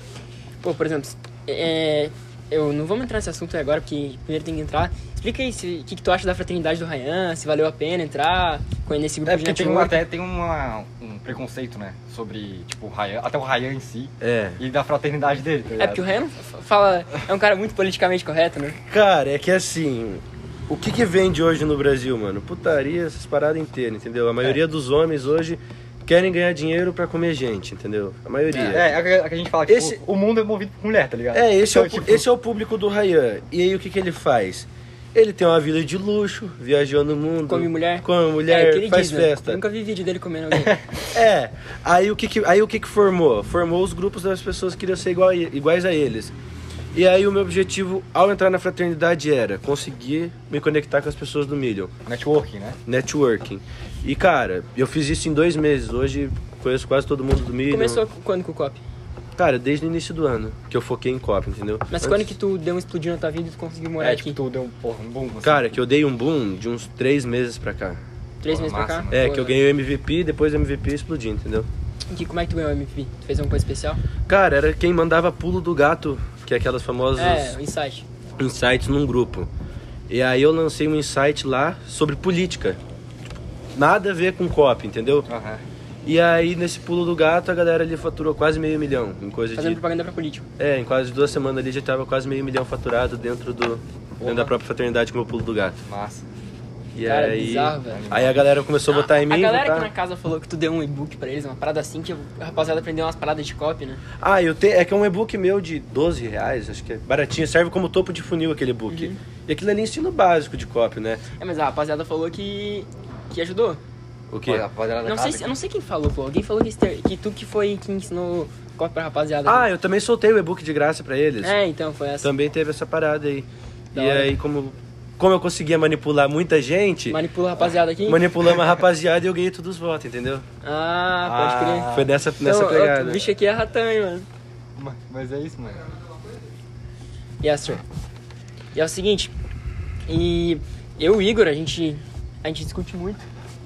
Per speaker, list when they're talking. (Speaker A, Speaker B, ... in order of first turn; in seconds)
Speaker A: 0.6-10.0, 15.8-18.8, 37.5-40.8, 57.7-58.8, 61.9-64.4, 68.4-69.6, 72.1-74.0, 77.2-78.0, 89.5-90.5, 97.0-98.0, 98.9-104.0, 108.9-109.2, 111.4-113.8, 115.0-119.7, 121.4-122.3, 123.9-124.3, 127.1-128.2, 130.6-134.3, 137.4-137.8, 138.7-139.3, 140.1-143.2
Speaker B: 9.2-16.1, 28.6-32.2, 52.0-52.8, 64.0-65.8, 68.5-69.2, 85.3-85.6, 94.2-94.5, 95.8-96.2, 97.9-98.4, 114.4-115.5, 131.2-132.1, 134.8-135.8
Speaker C: 14.2-14.6, 18.9-28.9, 29.7-30.0, 31.3-39.6, 41.1-46.3, 46.9-51.9, 52.9-58.0, 59.4-62.3, 65.4-68.0, 69.1-71.7, 74.3-77.5, 78.4-79.5, 80.1-82.8, 83.7-85.3, 86.0-89.8, 90.6-95.8, 96.9-99.9, 104.2-111.2, 114.3-114.6, 119.5-121.5, 122.2-127.2, 128.1-130.4, 131.6-133.2